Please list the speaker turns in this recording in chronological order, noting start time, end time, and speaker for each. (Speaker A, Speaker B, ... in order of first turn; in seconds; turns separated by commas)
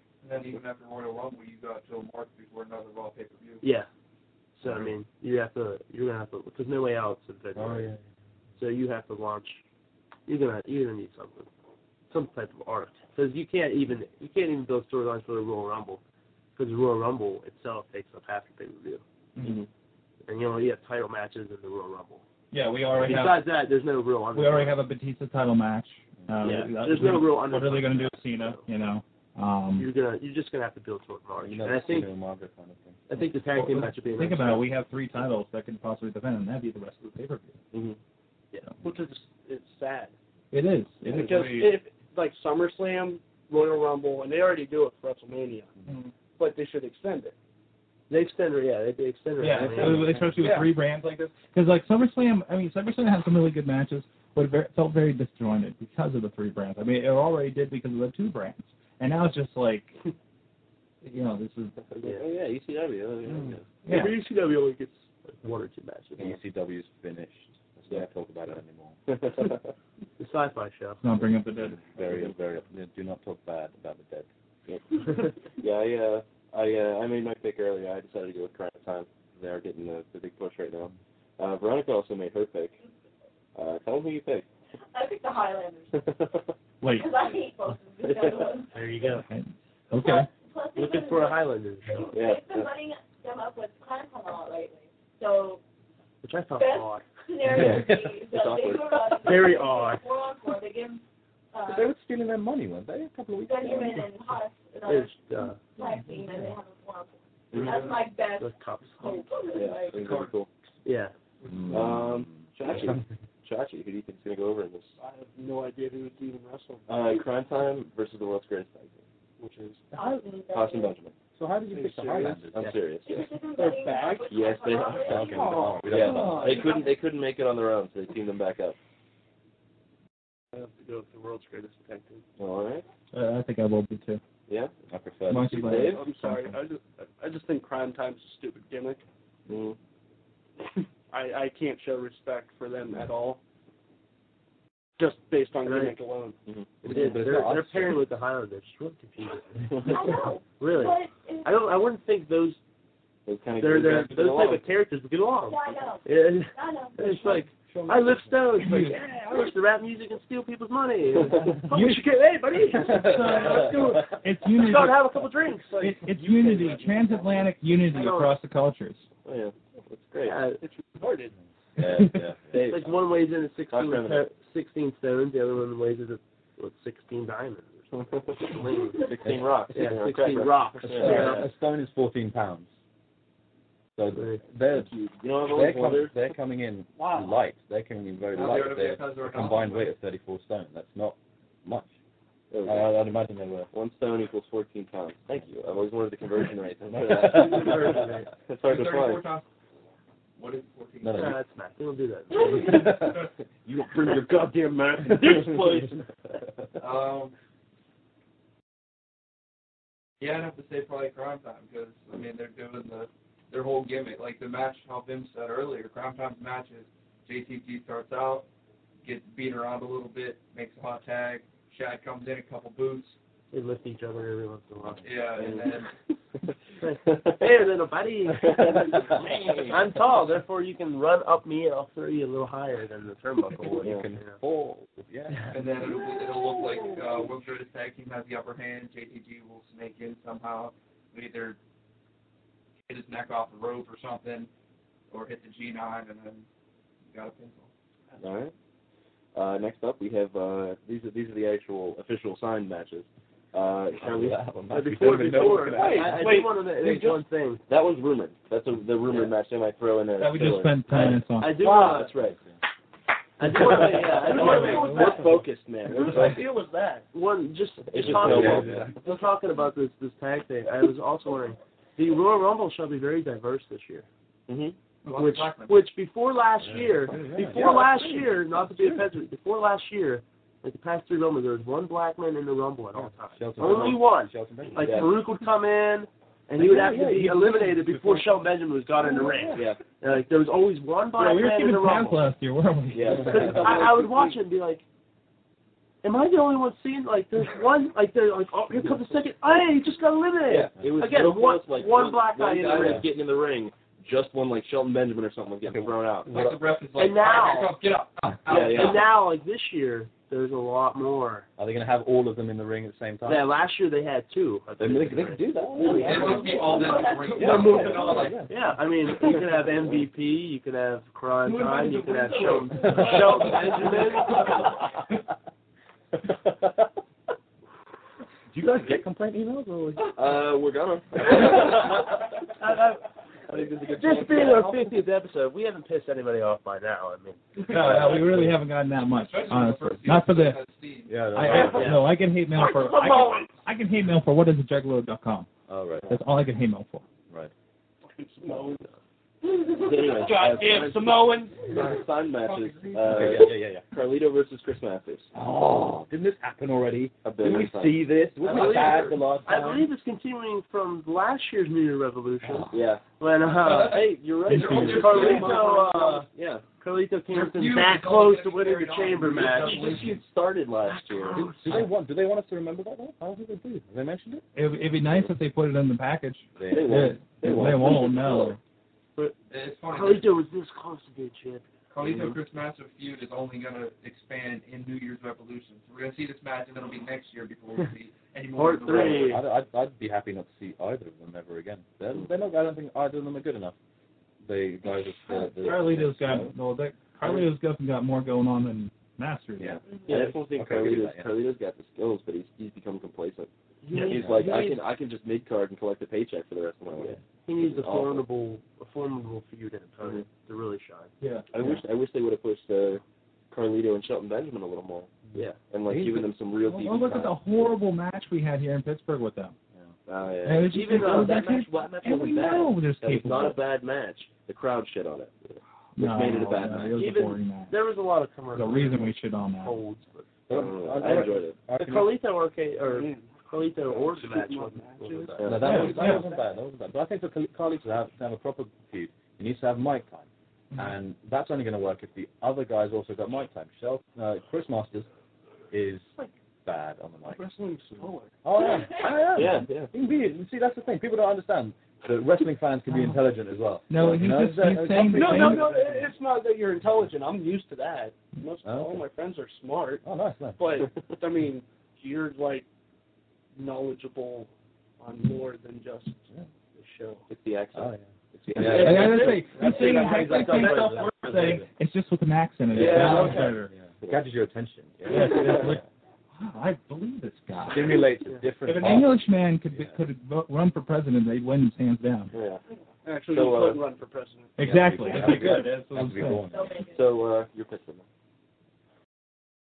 Speaker A: 0.2-3.6, Speaker B: 3.6-3.9, Speaker B: 4.5-7.9, Speaker C: 7.5-8.0, Speaker B: 8.6-9.6, Speaker B: 10.3-11.5, Speaker B: 12.1-16.0, Speaker B: 16.6-19.0, Speaker D: 19.4-19.6, Speaker E: 19.4-19.7, Speaker B: 20.2-22.2, Speaker D: 22.5-23.5, Speaker B: 22.9-24.8, Speaker D: 24.3-29.9, Speaker B: 26.4-28.6, Speaker B: 29.8-32.1, Speaker C: 31.4-33.0, Speaker B: 33.1-34.7, Speaker D: 33.5-37.5, Speaker E: 37.7-38.0, Speaker F: 38.8-40.1, Speaker D: 40.5-41.8, Speaker F: 41.1-45.7, Speaker D: 45.9-46.1, Speaker F: 46.4-47.3, Speaker B: 48.1-50.3, Speaker D: 49.4-60.0, Speaker D: 61.0-61.7, Speaker E: 61.8-63.6, Speaker C: 63.3-63.5, Speaker D: 63.8-64.2, Speaker B: 63.9-66.4, Speaker C: 66.2-69.0, Speaker E: 69.1-69.7, Speaker B: 70.2-71.0, Speaker D: 71.0-71.9, Speaker C: 71.8-74.3, Speaker E: 72.0-72.3, Speaker E: 74.7-82.8, Speaker E: 83.5-84.5, Speaker G: 84.9-86.0, Speaker E: 85.9-86.5, Speaker D: 86.8-87.1, Speaker G: 86.8-89.0, Speaker E: 88.0-88.5, Speaker B: 88.7-89.2, Speaker D: 89.2-90.3, Speaker G: 90.0-95.6, Speaker B: 90.7-92.2, Speaker E: 92.1-92.7, Speaker B: 96.2-97.1, Speaker G: 96.5-101.0, Speaker E: 97.5-99.5, Speaker C: 97.5-98.1, Speaker B: 99.2-100.0, Speaker G: 101.5-101.9, Speaker C: 101.7-104.1, Speaker G: 103.3-110.2, Speaker B: 104.8-105.7, Speaker E: 107.5-107.8, Speaker A: 107.5-107.9, Speaker B: 108.4-109.2, Speaker E: 109.5-110.5, Speaker A: 109.9-110.3, Speaker B: 110.8-111.1, Speaker A: 111.4-111.7, Speaker C: 111.5-112.9, Speaker E: 111.7-115.0, Speaker F: 115.0-117.2, Speaker E: 116.9-119.0, Speaker F: 119.4-119.9, Speaker G: 119.9-120.9, Speaker E: 120.5-121.1, Speaker C: 121.4-122.7, Speaker F: 121.7-122.5, Speaker E: 122.5-123.3, Speaker G: 123.0-125.6, Speaker F: 123.5-124.3, Speaker E: 124.3-128.8, Speaker C: 125.0-126.7, Speaker F: 125.2-126.6, Speaker G: 126.5-126.9, Speaker F: 130.5-132.2, Speaker E: 132.4-132.8, Speaker D: 133.1-134.2, Speaker E: 134.5-134.7, Speaker C: 134.9-135.9, Speaker D: 135.3-136.6, Speaker E: 135.3-136.0, Speaker F: 135.9-139.0, Speaker E: 139.5-139.8, Speaker F: 141.1-143.4, Speaker F: 145.0-146.4, Speaker B: 145.6-146.0, Speaker B: 146.8-152.6, Speaker C: 146.8-148.1, Speaker G: 149.8-151.5, Speaker E: 153.3-154.6, Speaker B: 153.6-165.9, Speaker G: 155.4-157.4, Speaker C: 157.7-158.4, Speaker D: 158.6-159.0, Speaker D: 161.6-162.1, Speaker D: 162.8-165.1, Speaker F: 165.7-167.3, Speaker D: 165.8-169.1, Speaker B: 167.9-168.3, Speaker E: 169.2-170.4, Speaker B: 170.2-170.6, Speaker F: 170.6-171.3, Speaker E: 171.8-173.0, Speaker D: 171.8-172.2, Speaker B: 172.5-179.1, Speaker E: 173.7-174.2, Speaker E: 177.9-181.5, Speaker B: 179.7-181.5, Speaker C: 180.8-182.7, Speaker C: 184.0-184.9, Speaker B: 184.1-184.4, Speaker E: 184.7-186.1, Speaker C: 185.4-191.9, Speaker A: 188.3-189.9, Speaker E: 192.5-192.9, Speaker C: 192.6-193.7, Speaker E: 193.7-199.2, Speaker C: 196.9-197.9, Speaker B: 197.3-198.3, Speaker A: 198.6-199.4, Speaker A: 200.4-201.3, Speaker C: 201.0-201.4, Speaker B: 201.1-202.9, Speaker C: 202.3-205.8, Speaker F: 205.4-205.9, Speaker A: 206.8-207.3, Speaker A: 210.2-218.4, Speaker A: 219.0-223.2, Speaker B: 223.5-225.1, Speaker A: 225.0-225.9, Speaker E: 225.4-225.7, Speaker B: 226.8-234.4, Speaker E: 227.0-227.4, Speaker E: 228.4-229.8, Speaker C: 233.8-235.6, Speaker A: 235.5-241.6, Speaker A: 242.8-244.5, Speaker A: 245.1-246.4, Speaker A: 247.1-247.7, Speaker E: 248.2-248.5, Speaker E: 249.3-254.4, Speaker C: 254.0-256.3, Speaker B: 254.7-257.6, Speaker F: 255.8-256.4, Speaker E: 255.8-257.1, Speaker E: 257.7-262.4, Speaker D: 260.2-261.8, Speaker B: 261.4-262.1, Speaker B: 263.4-265.2, Speaker E: 263.6-266.4, Speaker F: 264.3-265.2, Speaker D: 264.3-265.1, Speaker F: 266.1-267.0, Speaker B: 267.1-274.1, Speaker E: 267.9-268.9, Speaker C: 268.0-268.9, Speaker E: 274.5-274.8, Speaker A: 275.0-275.8, Speaker B: 275.1-292.2, Speaker C: 276.7-278.2, Speaker C: 282.9-285.1, Speaker E: 283.6-283.9, Speaker E: 284.8-285.1, Speaker C: 286.6-287.3, Speaker E: 289.5-289.8, Speaker D: 291.1-293.4, Speaker E: 292.9-293.9, Speaker B: 293.1-294.8, Speaker B: 296.0-303.1, Speaker E: 300.5-306.3, Speaker C: 302.7-303.0, Speaker C: 305.6-306.6, Speaker A: 306.3-309.0, Speaker B: 307.0-307.7, Speaker E: 308.5-309.0, Speaker B: 308.5-311.5, Speaker C: 311.6-313.5, Speaker B: 313.2-324.8, Speaker C: 314.8-316.6, Speaker G: 315.7-318.1, Speaker A: 315.9-318.4, Speaker C: 317.4-318.5, Speaker F: 321.6-321.9, Speaker A: 321.7-323.9, Speaker C: 328.5-330.1, Speaker E: 330.1-332.0, Speaker B: 331.3-331.8, Speaker B: 332.6-338.1, Speaker E: 333.5-334.9, Speaker D: 337.7-340.6, Speaker C: 337.7-338.5, Speaker A: 339.1-341.2, Speaker C: 341.1-342.0, Speaker D: 341.3-345.5, Speaker B: 341.7-342.0, Speaker F: 342.6-343.5, Speaker C: 345.7-346.1, Speaker D: 346.1-347.0, Speaker F: 348.0-348.9, Speaker E: 349.8-355.3, Speaker F: 350.1-351.7, Speaker A: 352.4-353.4, Speaker C: 353.0-353.8, Speaker C: 355.3-359.8, Speaker E: 357.2-358.0, Speaker B: 358.4-366.3, Speaker C: 362.4-362.8, Speaker E: 362.7-363.0, Speaker A: 363.6-365.9, Speaker E: 363.7-366.6, Speaker C: 364.7-365.0, Speaker B: 366.8-370.0, Speaker A: 367.3-370.2, Speaker E: 369.6-371.5, Speaker B: 370.9-371.9, Speaker C: 371.4-374.4, Speaker D: 374.5-378.6, Speaker C: 376.6-377.5, Speaker E: 376.7-378.6, Speaker A: 379.5-380.3, Speaker B: 379.9-381.6, Speaker A: 381.9-389.4, Speaker E: 382.0-382.4, Speaker B: 388.6-389.4, Speaker E: 388.9-389.4, Speaker C: 389.0-393.8, Speaker C: 394.4-396.5, Speaker D: 395.5-399.8, Speaker E: 399.6-408.2, Speaker G: 399.9-400.2, Speaker C: 400.5-401.3, Speaker B: 403.8-404.8, Speaker C: 404.1-404.4, Speaker B: 407.0-411.1, Speaker E: 411.5-415.1, Speaker C: 415.3-416.2, Speaker E: 415.7-417.4, Speaker D: 416.6-419.5, Speaker E: 420.1-427.0, Speaker D: 420.4-423.6, Speaker B: 420.7-422.5, Speaker D: 425.9-427.8, Speaker B: 426.9-430.3, Speaker D: 428.5-429.8, Speaker C: 430.5-432.1, Speaker E: 430.5-431.6, Speaker B: 431.0-436.1, Speaker F: 432.8-435.5, Speaker E: 435.4-435.8, Speaker C: 435.4-445.1, Speaker D: 435.6-436.2, Speaker C: 445.7-447.5, Speaker F: 447.3-448.3, Speaker C: 448.4-456.0, Speaker E: 449.3-449.9, Speaker D: 452.9-453.2, Speaker D: 453.9-455.8, Speaker F: 455.1-460.0, Speaker C: 458.6-459.0, Speaker C: 460.0-460.6, Speaker F: 460.6-462.6, Speaker F: 463.6-467.2, Speaker E: 467.3-469.4, Speaker C: 467.7-471.7, Speaker D: 468.6-473.7, Speaker B: 468.8-471.3, Speaker C: 472.7-475.8, Speaker E: 472.7-473.5, Speaker D: 475.1-475.8, Speaker E: 475.1-475.7, Speaker D: 476.4-478.1, Speaker C: 477.7-480.0, Speaker D: 478.6-482.3, Speaker E: 482.3-482.6, Speaker F: 483.0-484.6, Speaker E: 483.3-483.8, Speaker D: 484.6-486.4, Speaker C: 484.6-486.8, Speaker G: 486.4-487.1, Speaker E: 486.9-488.0